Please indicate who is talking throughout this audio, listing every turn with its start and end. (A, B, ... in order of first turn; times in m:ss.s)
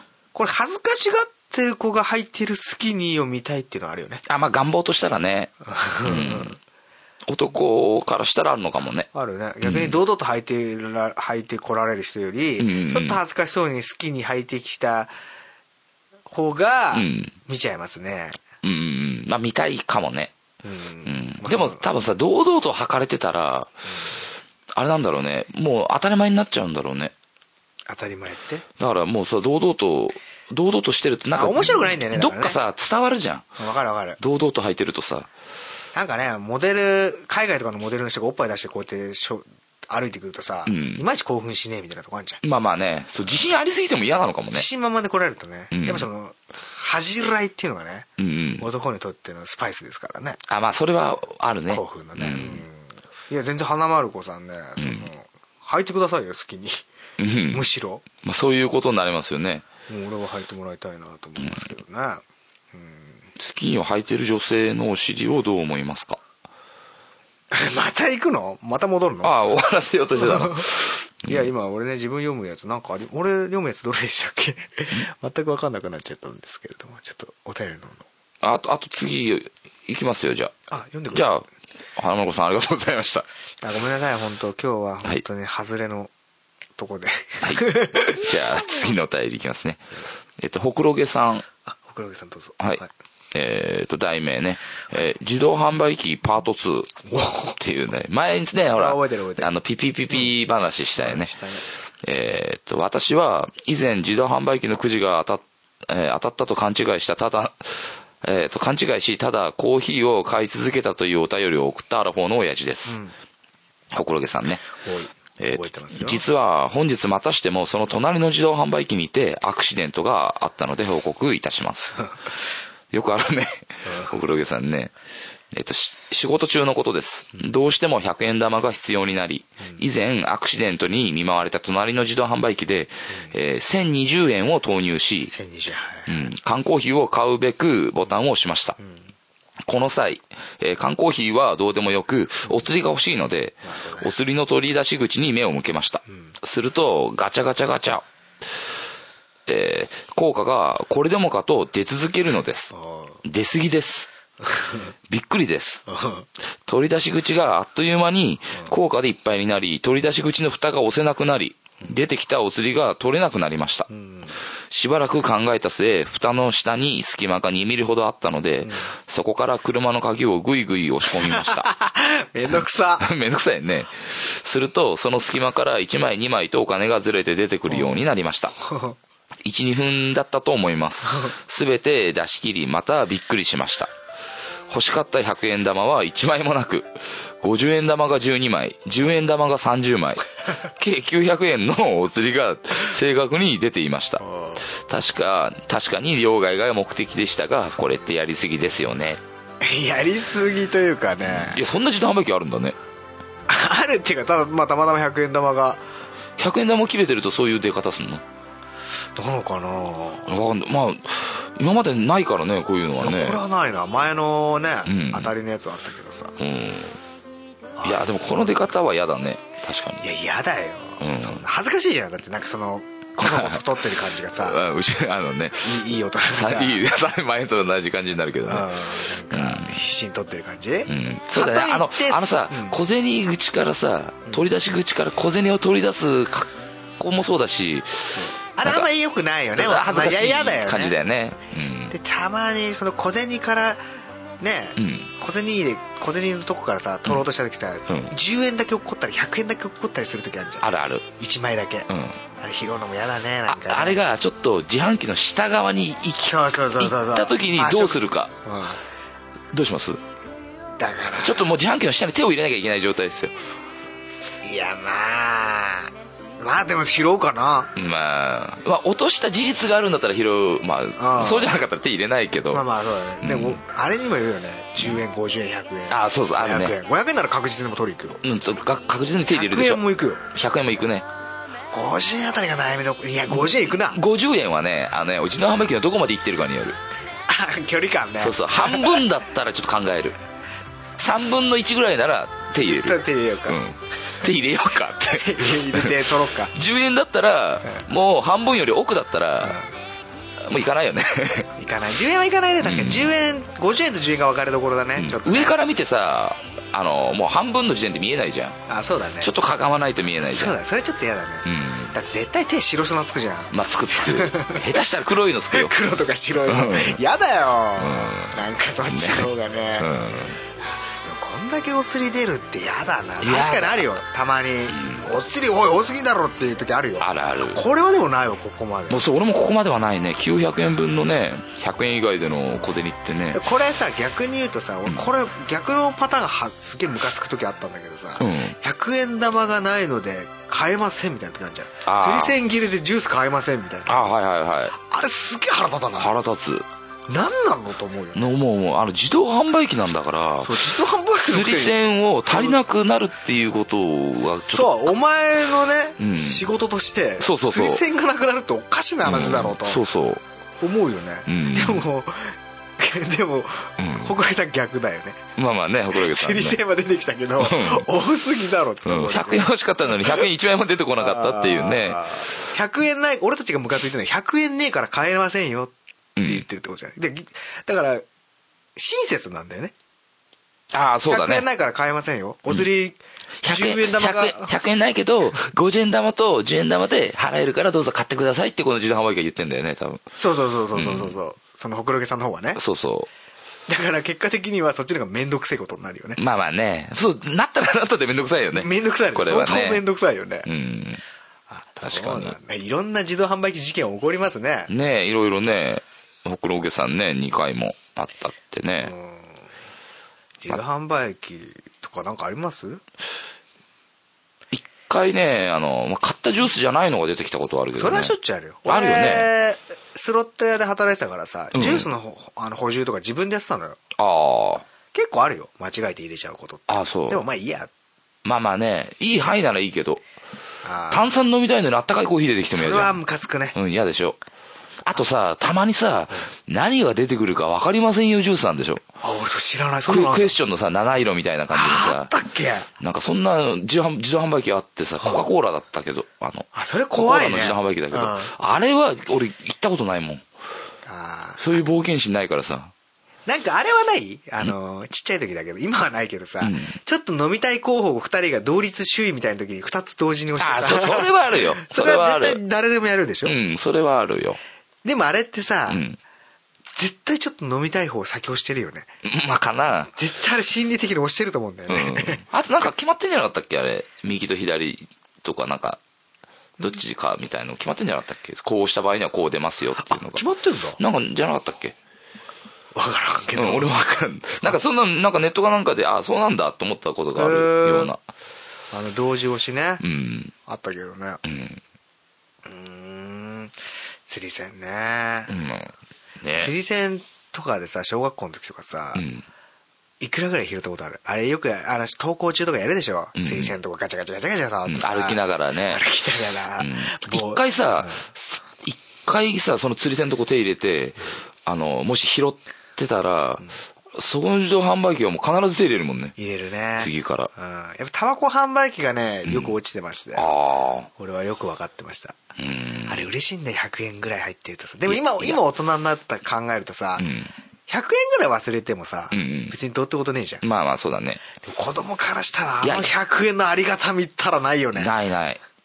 0:00.3-0:04.2 A
0:04.3-0:06.6 B
0:05.6-0:06.6 A
0:07.3-0:09.1 B
0:09.1-0:15.1 A
0:09.6-0:10.0 B
0:12.6-0:13.2 B
0:16.3-0:18.4 A
0:16.9-0:17.4 B
0:18.6-0:20.3 B
0:20.6-0:21.8 A
0:21.0-0:23.7 B
0:24.7-0:27.1 B
0:27.9-0:28.6 A
0:28.8-0:33.4 B
0:31.3-0:32.6 A
0:33.6-0:34.2 A
0:34.2-0:35.3 B
0:35.9-0:42.4 A
0:40.6-0:41.0 B
0:42.4-0:44.6 B
0:44.5-0:50.4 A
0:45.7-0:46.1 B
0:48.2-0:48.6 B
0:50.5-0:52.6 B
0:51.7-0:56.8 A
0:54.8-0:55.1 B
0:57.2-0:57.6 B
0:57.5-0:58.0 A
0:58.2-0:59.6 B
0:59.9-1:03.3 A
1:01.4-1:01.7 B
1:03.4-1:06.2 B
1:07.5-1:09.4 A
1:09.2-1:11.5 B
1:10.1-1:10.7 A
1:11.3-1:18.1 A
1:18.4-1:20.5 B
1:20.7-1:21.3 A
1:21.1-1:21.4 B
1:22.0-1:23.3 B
1:23.6-1:26.1 A
1:26.8-1:28.9 A
1:27.4-1:31.4 B
1:31.7-1:32.9 A
1:33.3-1:37.0 B
1:37.1-1:37.6 A
1:37.6-1:41.3 B
1:38.7-1:39.5 A
1:41.0-1:41.6 A
1:42.0-1:53.0 B
1:52.9-1:53.1 A
1:53.9-1:54.7 B
1:54.7-1:56.2 A
1:55.4-2:02.1 B
2:02.9-2:04.9 B
2:03.9-2:04.2 A
2:05.5-2:15.3 B
2:15.3-2:16.3 A
2:16.1-2:18.8 B
2:19.6-2:28.0 B
2:23.6-2:24.1 A
2:29.5-2:32.7 B
2:32.7-2:33.2 A
2:33.2-2:34.1 B
2:34.4-2:34.9 A
2:35.1-2:35.8 B
2:35.9-2:36.3 A
2:36.6-2:43.9 B
2:43.9-2:44.4 A
2:44.7-2:51.7 B
2:51.1-2:53.1 A
2:52.5-2:58.6 B
2:57.7-2:58.0 A
2:58.6-2:59.0 A
2:59.4-3:03.9 B
3:04.7-3:19.2 B
3:14.2-3:14.6 A
3:19.6-3:21.6 A
3:21.2-3:22.8 B
3:23.5-3:25.8 A
3:26.4-3:28.2 B
3:29.1-3:30.3 A
3:30.3-3:33.4 B
3:33.0-3:36.4 A
3:34.9-3:35.3 B
3:36.4-3:37.0 B
3:37.8-3:38.6 A
3:37.8-3:40.1 B
3:40.0-3:44.6 A
3:41.0-3:41.4 B
3:43.2-3:43.6 B
3:44.4-3:48.7 B
3:45.6-3:46.8 A
3:48.5-3:52.8 A
3:49.3-3:49.8 B
3:50.9-3:58.1 B
3:58.1-4:00.9 A
3:59.6-4:02.0 B
4:01.9-4:03.8 A
4:04.4-4:11.9 A
4:04.8-4:05.1 B
4:07.9-4:08.1 B
4:10.6-4:11.1 B
4:11.9-4:12.2 B
4:12.4-4:14.0 A
4:13.5-4:18.3 B
4:16.2-4:18.8 A
4:19.5-4:20.0 B
4:20.8-4:21.5 A
4:21.2-4:23.3 B
4:24.4-4:27.7 A
4:27.8-4:32.6 B
4:31.0-4:31.6 A
4:32.5-4:38.2 A
4:33.2-4:33.6 B
4:35.9-4:36.8 B
4:38.2-4:41.1 B
4:39.3-4:40.2 A
4:41.7-4:44.0 A
4:43.3-4:46.8 B
4:47.3-4:49.0 A
4:48.2-4:50.2 B
4:51.0-4:59.6 B
4:52.6-4:53.6 A
4:55.1-4:56.6 A
5:00.4-5:01.5 B
5:01.6-5:05.6 A
5:02.6-5:03.1 B
5:05.0-5:08.6 B
5:08.7-5:09.3 A
5:09.2-5:10.6 B
5:10.3-5:14.8 A
5:11.4-5:11.9 B
5:13.5-5:15.8 B
5:15.5-5:19.9 A
5:16.4-5:17.0 B
5:17.8-5:20.4 B
5:21.0-5:29.0 A
5:23.2-5:24.0 B
5:24.7-5:25.1 B
5:27.0-5:27.6 B
5:28.9-5:33.4 B
5:33.3-5:44.1 A
5:38.2-5:38.6 B
5:41.8-5:42.4 B
5:43.9-5:44.8 B
5:44.7-5:46.1 A
5:46.0-5:46.6 B
5:47.1-5:48.2 A
5:48.2-5:54.9 B
5:50.4-5:51.8 A
5:52.3-5:52.6 A
5:54.5-5:59.8 A
5:56.0-5:56.5 B
5:57.2-5:57.8 B
5:59.0-6:00.2 B
6:00.6-6:05.2 A
6:01.3-6:01.9 B
6:03.8-6:04.1 B
6:05.4-6:06.6 B
6:05.9-6:10.3 A
6:07.4-6:07.9 B
6:08.9-6:12.1 B
6:11.0-6:18.1 A
6:16.2-6:16.5 B
6:18.8-6:19.7 A
6:20.7-6:21.5 B
6:21.1-6:24.5 A
6:23.4-6:30.0 B
6:30.2-6:32.6 A
6:30.7-6:31.1 B
6:32.6-6:33.1 B
6:33.7-6:36.2 A
6:36.2-6:39.8 B
6:38.5-6:40.5 A
6:40.4-6:41.0 B
6:41.5-6:44.7 A
6:41.8-6:42.4 B
6:44.7-6:48.9 B
6:48.8-6:49.5 A
6:50.4-6:52.8 A
6:54.5-6:58.1 B
6:57.7-7:03.8 A
6:58.6-6:59.3 B
7:01.5-7:01.9 B
7:04.0-7:04.6 B
7:04.9-7:07.7 A
7:06.7-7:07.2 B
7:08.2-7:10.0 B
7:10.6-7:11.1 A
7:10.9-7:13.0 B
7:12.5-7:13.6 A
7:13.5-7:14.2 B
7:14.8-7:18.8 B
7:19.0-7:20.4 A
7:19.8-7:22.1 B
7:21.5-7:22.7 A
7:22.8-7:30.2 B
7:26.5-7:28.3 A
7:30.8-7:31.4 A
7:31.4-7:32.7 B
7:33.2-7:43.4 A
7:36.4-7:36.8 B
7:40.4-7:42.4 B
7:43.2-7:44.4 B
7:44.8-7:45.8 A
7:45.7-7:46.0 B
7:46.8-7:48.9 A
7:49.0-7:49.9 B
7:49.9-7:52.2 A
7:51.7-7:55.8 B
7:56.6-8:00.2 B
7:59.8-8:00.8 A
8:00.8-8:01.8 B
8:02.7-8:03.7 A
8:03.4-8:08.0 B
8:07.1-8:07.9 A
8:08.7-8:09.8 A
8:09.8-8:10.3 B
8:10.5-8:11.2 A
8:11.2-8:11.6 B
8:12.4-8:15.3 A
8:15.3-8:16.5 B
8:16.4-8:19.0 A
8:18.9-8:19.2 B
8:20.0-8:28.0 A
8:23.2-8:23.5 B
8:24.6-8:25.8 B
8:26.6-8:33.4 B
8:33.9-8:36.2 B
8:36.2-8:40.3 A
8:36.8-8:37.3 B
8:39.2-8:39.5 B
8:40.2-8:40.9 B
8:41.0-8:42.2 A
8:42.4-8:43.1 B
8:42.9-8:47.1 A
8:44.9-8:45.4 B
8:47.0-8:47.3 B
8:47.7-8:50.4 A
8:49.1-8:49.5 B
8:50.4-8:51.2 B
8:51.4-8:54.9 A
8:52.6-8:52.9 B
8:54.8-8:55.4 B